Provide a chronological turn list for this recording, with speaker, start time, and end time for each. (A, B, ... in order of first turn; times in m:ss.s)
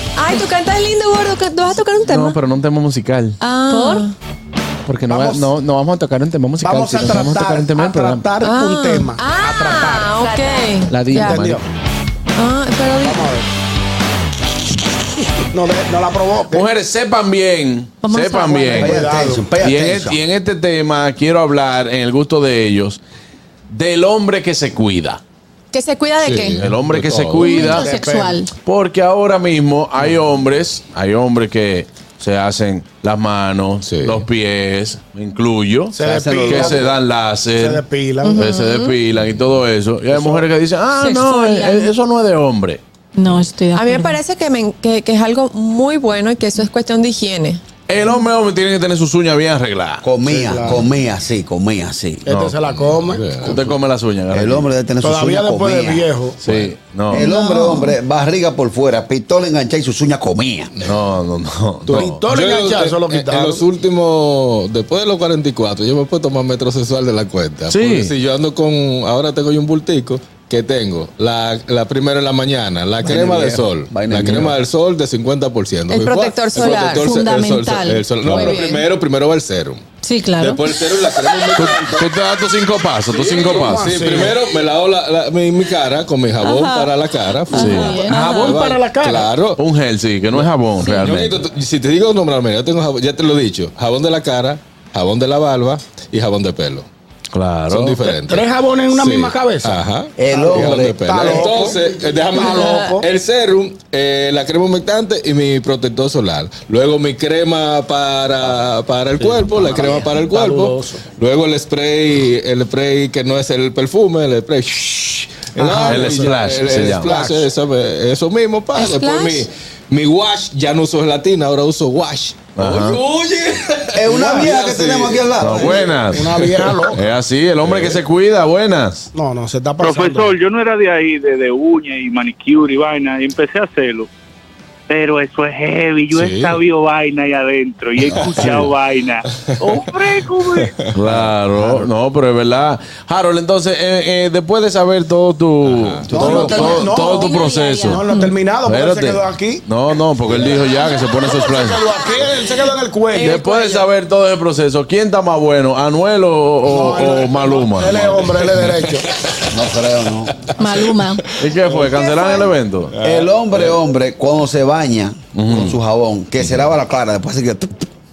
0:00.2-0:02.4 A
0:02.0-0:03.4 B
0:03.4-0:04.1 A
0:03.7-0:04.0 C
0:04.9-0:08.3 B
0:05.1-0:05.5 D
0:06.6-0:10.2 D
0:08.4-0:11.4 A
0:10.9-0:11.6 B
0:11.1-0:11.6 D
0:12.4-0:13.2 A
0:13.0-0:13.5 D
0:15.5-0:16.7 D
0:16.5-0:19.0 B
0:18.0-0:18.7 C
0:18.7-0:19.5 D
0:18.7-0:20.2 E
0:19.6-0:23.0 B
0:23.7-0:25.2 B
0:25.7-0:26.6 A
0:26.2-0:27.6 F
0:26.6-0:27.9 B
0:27.4-0:28.5 C
0:27.7-0:28.4 D
0:28.6-0:37.8 B
0:33.8-0:34.3 F
0:35.9-0:37.0 D
0:36.0-0:36.9 E
0:37.6-0:38.5 D
0:38.3-0:42.8 B
0:38.5-0:38.9 A
0:40.1-0:40.5 D
0:41.0-0:41.9 A
0:43.2-0:44.1 C
0:43.7-0:47.6 A
0:47.9-0:50.0 B
0:50.0-0:52.2 E
0:50.2-0:50.9 D
0:52.2-0:53.7 D
0:52.3-0:52.6 B
0:52.6-0:53.6 F
0:53.4-0:54.7 B
0:54.3-0:56.1 E
0:55.0-0:56.4 D
0:56.4-0:57.3 B
0:57.1-1:00.7 E
0:57.3-0:57.9 C
1:00.8-1:01.0 F
1:00.8-1:02.2 B
1:01.9-1:03.7 D
1:01.9-1:22.1 F
1:07.7-1:08.1 B
1:13.1-1:14.6 E
1:15.9-1:17.1 A
1:17.0-1:18.5 C
1:18.2-1:18.5 B
1:18.5-1:18.9 A
1:20.0-1:20.6 C
1:21.6-1:24.0 B
1:23.1-1:29.6 F
1:23.5-1:24.4 D
1:26.4-1:26.9 C
1:27.5-1:28.5 C
1:27.5-1:28.0 B
1:27.8-1:29.3 D
1:29.6-1:31.4 B
1:30.3-1:36.9 F
1:37.3-1:38.1 B
1:37.7-2:06.7 F
1:38.2-1:43.1 D
1:40.2-1:40.9 E
1:49.2-1:51.0 D
1:55.6-1:57.5 D
1:55.6-1:57.2 B
1:58.8-1:59.4 A
2:02.6-2:03.0 B
2:04.0-2:05.9 E
2:04.1-2:04.6 D
2:05.4-2:09.1 B
2:06.1-2:07.1 D
2:07.6-2:08.0 F
2:09.1-2:10.4 D
2:09.8-2:14.1 G
2:14.9-2:20.6 G
2:16.1-2:16.6 F
2:18.0-2:18.8 F
2:19.6-2:19.9 F
2:20.5-2:21.3 F
2:20.9-2:28.0 B
2:25.6-2:26.3 F
2:26.1-2:27.3 D
2:26.2-2:26.8 E
2:26.3-2:28.3 C
2:27.9-2:29.6 D
2:28.7-2:31.8 B
2:31.2-2:33.8 D
2:33.2-2:38.1 B
2:36.6-2:39.1 D
2:38.0-2:39.4 F
2:39.5-2:40.5 E
2:40.6-2:41.2 C
2:40.6-2:41.3 F
2:41.4-2:43.0 B
2:41.9-2:42.4 D
2:43.0-2:43.8 F
2:43.0-2:47.9 E
2:45.4-2:45.8 B
2:46.4-2:46.7 F